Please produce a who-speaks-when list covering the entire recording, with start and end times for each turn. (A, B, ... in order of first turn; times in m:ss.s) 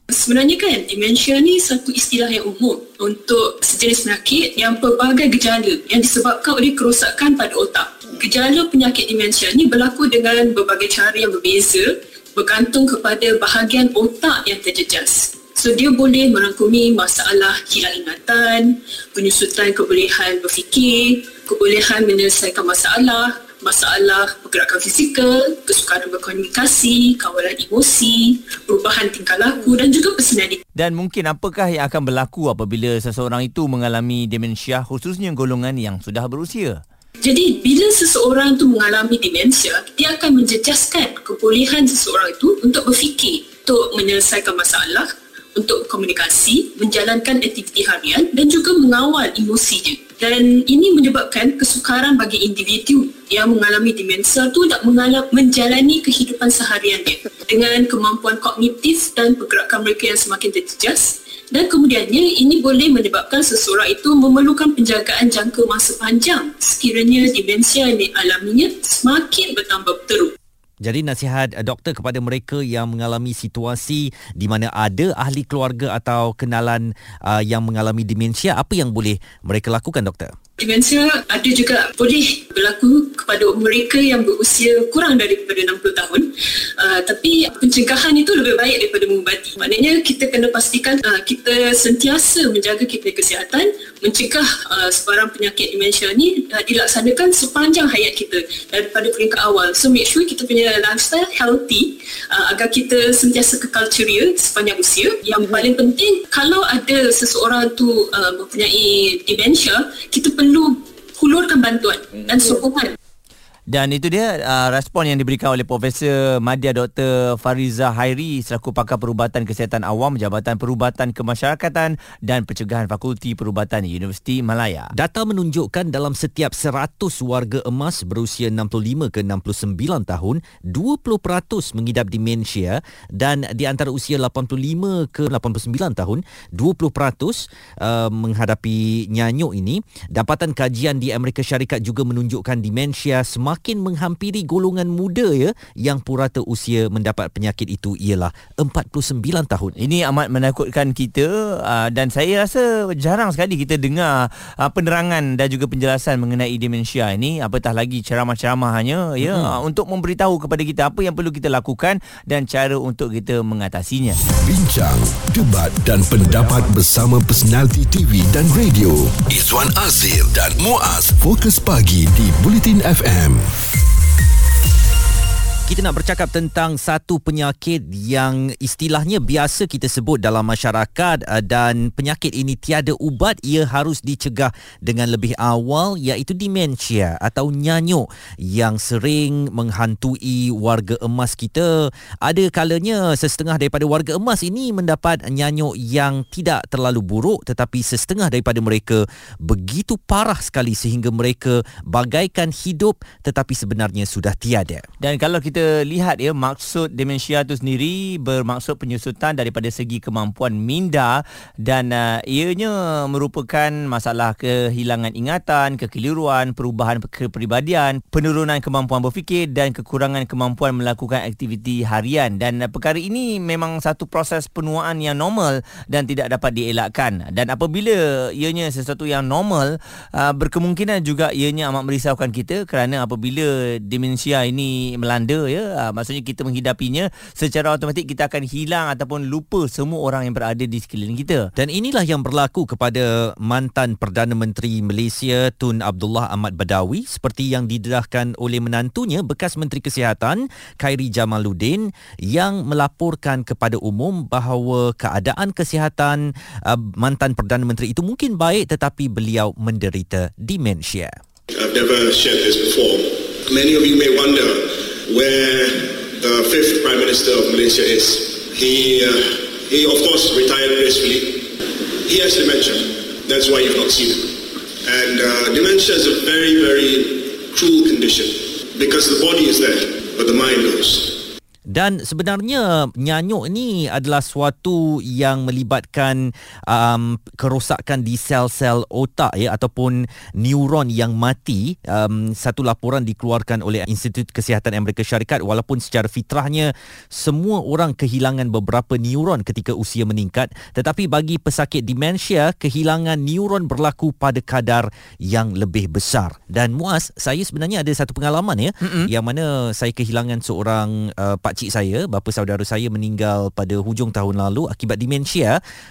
0:00.1-0:30.6 A
0:30.8-0:36.8 B
0:37.2-1:10.3 A
1:10.8-1:20.3 C
1:20.6-1:52.9 A
1:53.7-2:04.9 B
2:04.9-2:29.7 C
2:29.8-2:44.2 B
2:39.2-2:39.6 C
2:44.3-2:53.4 D
2:55.7-3:24.9 C
3:25.0-4:01.5 B
4:01.6-4:21.2 C
4:21.5-4:31.5 E
4:32.0-4:41.2 E
4:41.7-5:15.6 C
5:08.8-5:09.1 B